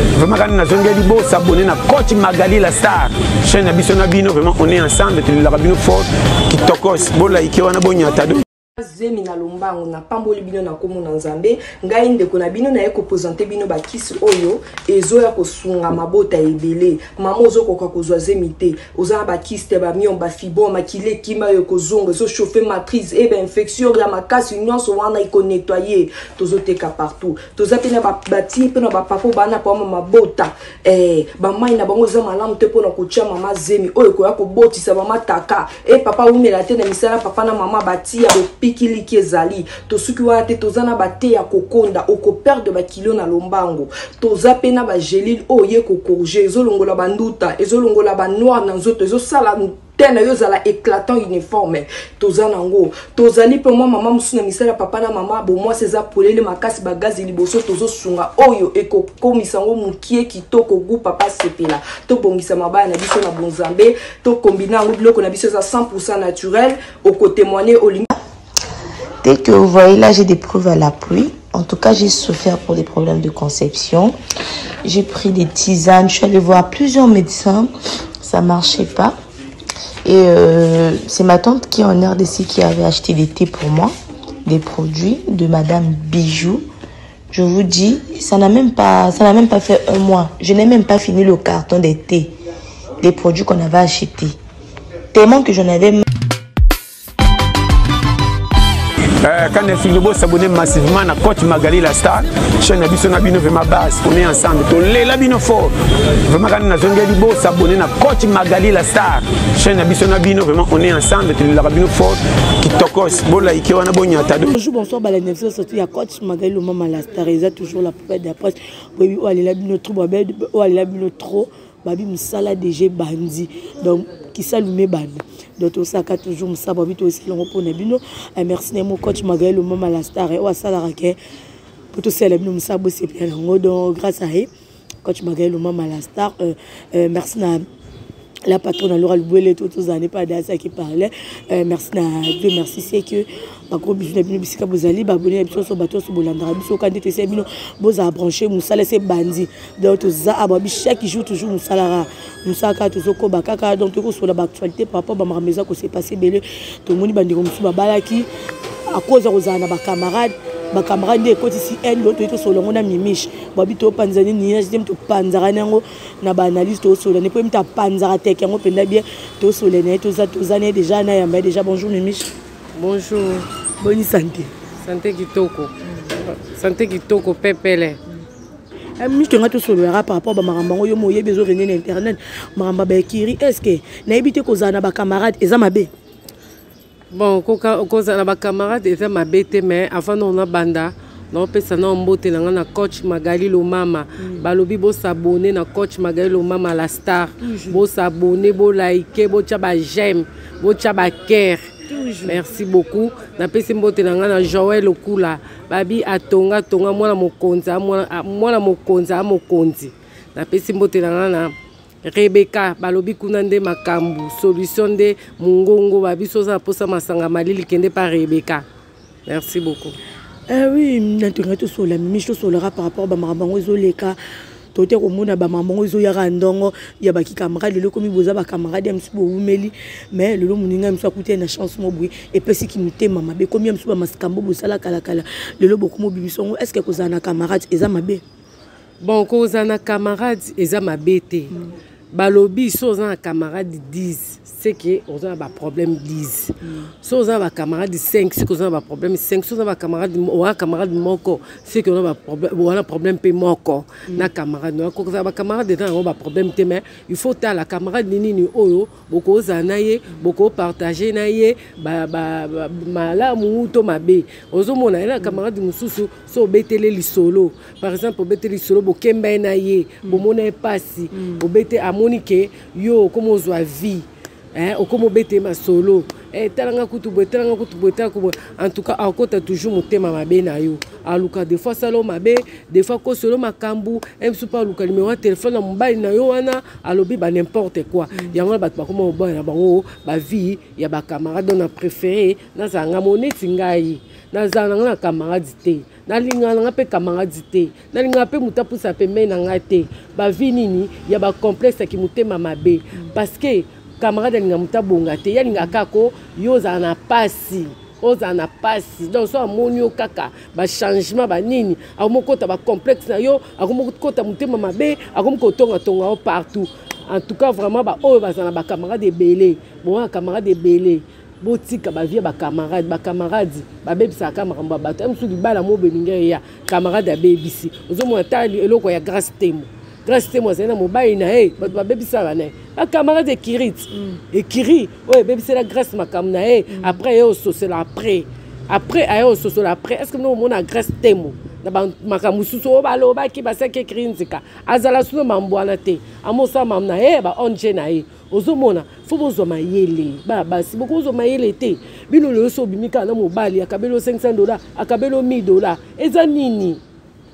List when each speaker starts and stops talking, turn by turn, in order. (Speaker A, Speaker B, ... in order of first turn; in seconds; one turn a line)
Speaker A: 0.1-8.4
Speaker B: 8.8-68.1
Speaker C: 69.2-74.2
Speaker C: 74.8-79.2
Speaker C: 80.0-83.9
Speaker C: 84.4-86.7
Speaker C: 87.3-92.3
Speaker C: 93.0-94.4
Speaker C: 95.1-96.0
Speaker A: 99.2-105.7
Speaker A: 106.2-114.5
Speaker D: 114.4-131.2
Speaker D: 131.9-134.5
Speaker D: 135.0-137.6
Speaker D: 138.5-158.3
Speaker D: 158.9-172.3
Speaker E: 172.8-173.5
Speaker D: 173.8-174.5
Speaker E: 174.8-178.0
Speaker D: 179.0-185.9
Speaker E: 187.1-218.7
Speaker D: 197.5-197.7
Speaker D: 201.9-202.2
Speaker E: 219.2-219.9
Speaker D: 220.5-224.2
Speaker D: 224.8-238.2
Speaker E: 239.0-241.5
Speaker E: 242.1-356.8
Speaker D: 336.7-337.0